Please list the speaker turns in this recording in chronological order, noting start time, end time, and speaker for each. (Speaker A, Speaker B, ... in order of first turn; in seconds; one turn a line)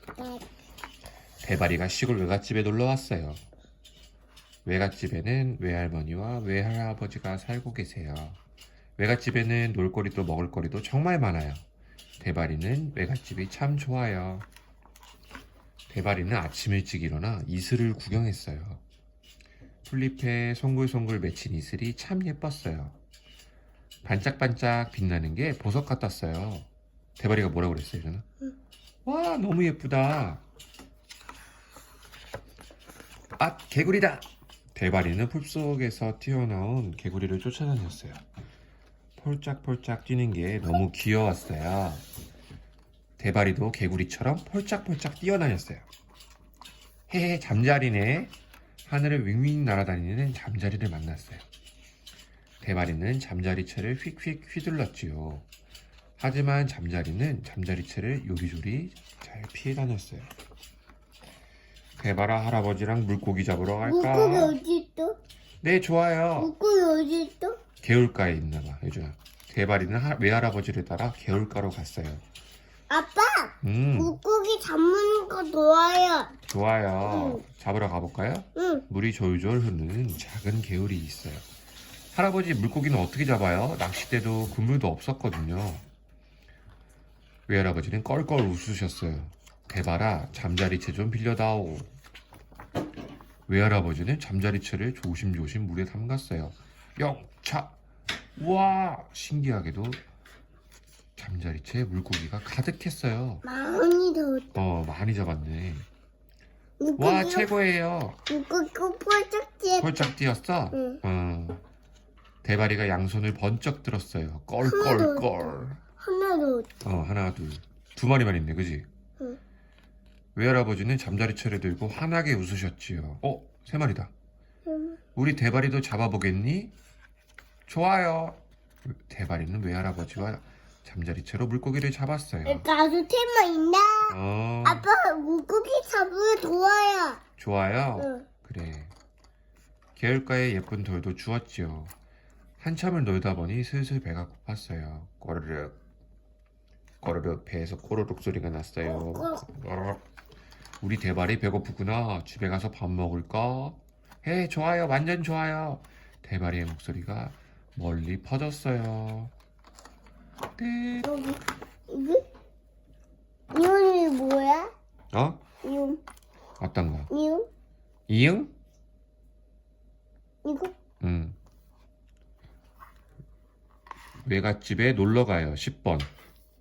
Speaker A: 0.2-0.4
Speaker B: 1.4-3.4
Speaker B: 4.6-8.4
Speaker B: 9.0-11.6
Speaker B: 12.2-14.5
Speaker B: 15.9-18.8
Speaker B: 19.9-22.9
Speaker B: 24.0-28.2
Speaker B: 29.0-30.4
Speaker B: 33.4-38.2
Speaker B: 39.2-42.0
Speaker B: 43.2-45.9
Speaker B: 47.1-48.3
Speaker B: 48.8-51.4
Speaker B: 52.6-55.5
Speaker B: 56.2-60.3
Speaker B: 62.0-64.6
Speaker A: 63.8-65.2
Speaker B: 65.6-66.5
Speaker A: 66.4-67.6
Speaker B: 67.8-72.2
Speaker A: 72.9-76.3
Speaker B: 73.6-74.1
Speaker B: 76.5-81.5
Speaker A: 77.0-77.4
Speaker A: 78.5-78.8
Speaker B: 82.1-85.8
Speaker B: 87.5-91.9
Speaker B: 93.5-97.7
Speaker B: 98.3-100.0
Speaker B: 101.2-103.4
Speaker A: 103.4-104.6
Speaker B: 104.5-105.9
Speaker A: 106.8-107.5
Speaker B: 107.0-108.2
Speaker A: 108.3-110.1
Speaker B: 109.8-111.6
Speaker A: 110.7-111.0
Speaker B: 112.4-115.8
Speaker A: 114.6-116.7
Speaker B: 116.8-118.8
Speaker B: 120.3-124.1
Speaker A: 124.7-125.0
Speaker B: 125.1-126.7
Speaker B: 127.7-132.7
Speaker A: 132.4-137.2
Speaker B: 134.1-134.8
Speaker B: 137.4-138.9
Speaker A: 138.0-138.3
Speaker B: 139.9-141.9
Speaker B: 142.6-145.8
Speaker B: 147.0-150.0
Speaker A: 148.8-149.4
Speaker B: 150.8-159.3
Speaker B: 160.6-161.1
Speaker A: 161.0-162.2
Speaker A: 163.5-164.7
Speaker B: 165.1-165.4
Speaker A: 165.6-166.0
Speaker B: 166.6-167.1
Speaker A: 167.1-167.5
Speaker B: 168.1-168.5
Speaker A: 170.4-170.7
Speaker B: 171.0-171.3
Speaker B: 174.2-176.1